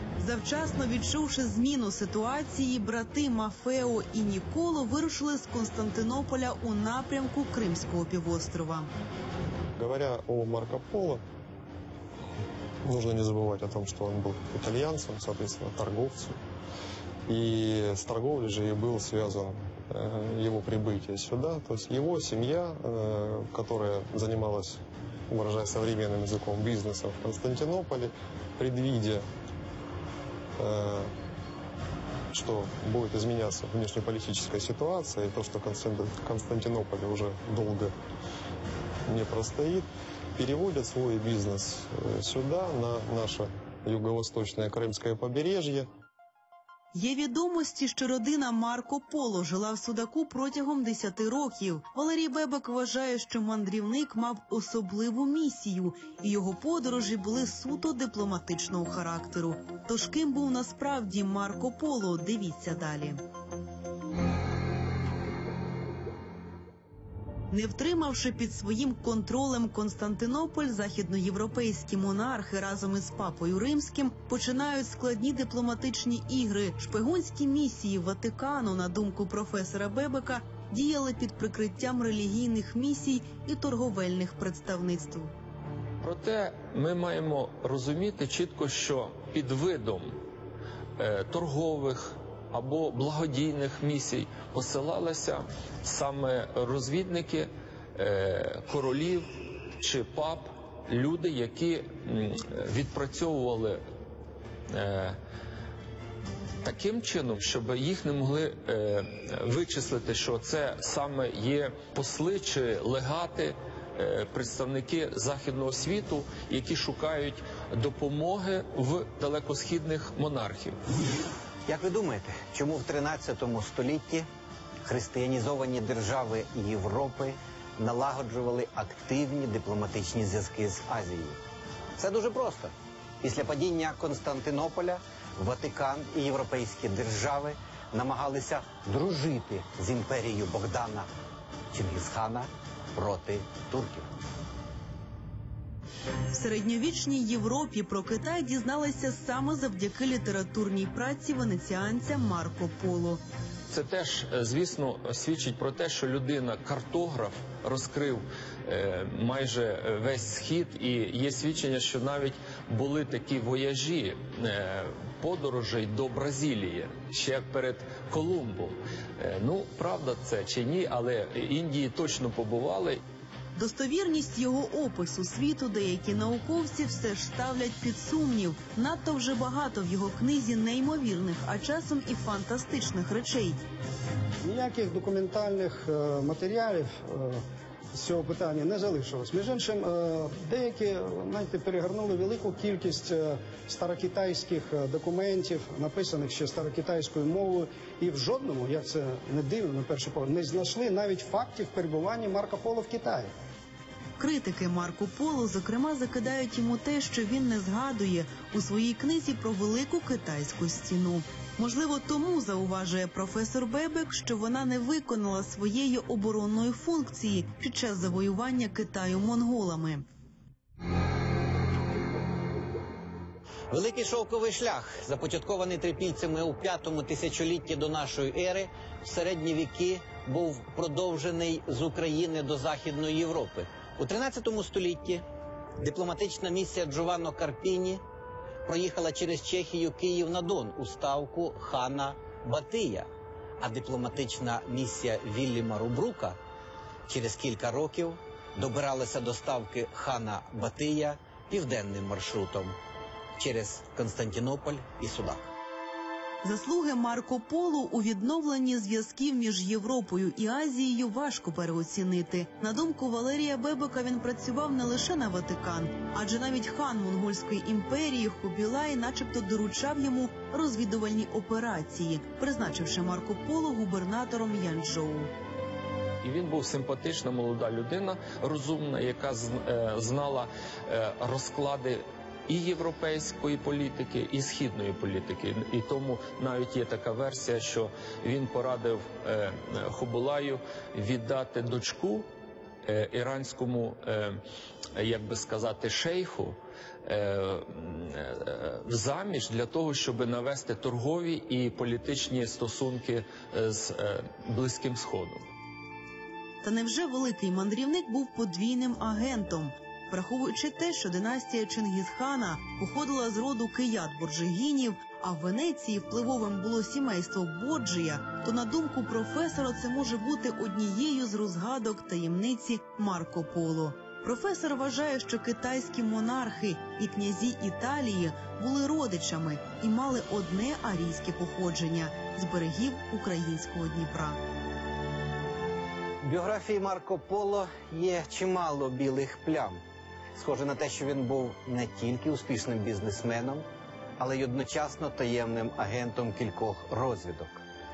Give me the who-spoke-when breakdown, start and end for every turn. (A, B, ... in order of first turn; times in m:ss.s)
0:00.2-0:08.9 A
0:09.8-0:11.2 B
0:12.8-0:16.4 B
0:17.3-0:29.3 B
0:30.6-0:31.1 B
0:32.3-0:37.9 B
0:39.1-0:45.9 B
0:46.9-1:03.2 A
1:07.5-1:25.3 A
1:26.0-1:30.2 C
1:31.0-1:43.8 C
1:44.7-1:45.2 C
1:46.6-2:00.8 C
2:01.7-2:04.3 D
2:04.8-2:11.4 D
2:12.0-2:21.1 D
2:21.7-2:24.1 D
2:26.3-2:33.2 A
2:33.7-2:53.0 C
2:53.6-3:03.6 A
3:04.4-3:23.3 E
3:24.2-3:40.0 A
3:43.7-3:55.2 D
3:55.8-3:58.0 D
3:58.6-4:06.4 D
4:07.1-4:12.8 D
4:13.4-4:15.5 D
4:16.4-4:35.3 A
4:36.2-4:52.3 C
4:52.8-4:54.4 C
4:55.0-5:05.4 C
5:06.6-5:34.4 A
5:36.2-5:39.8 D
5:40.3-5:43.7 D
5:44.2-5:47.6 D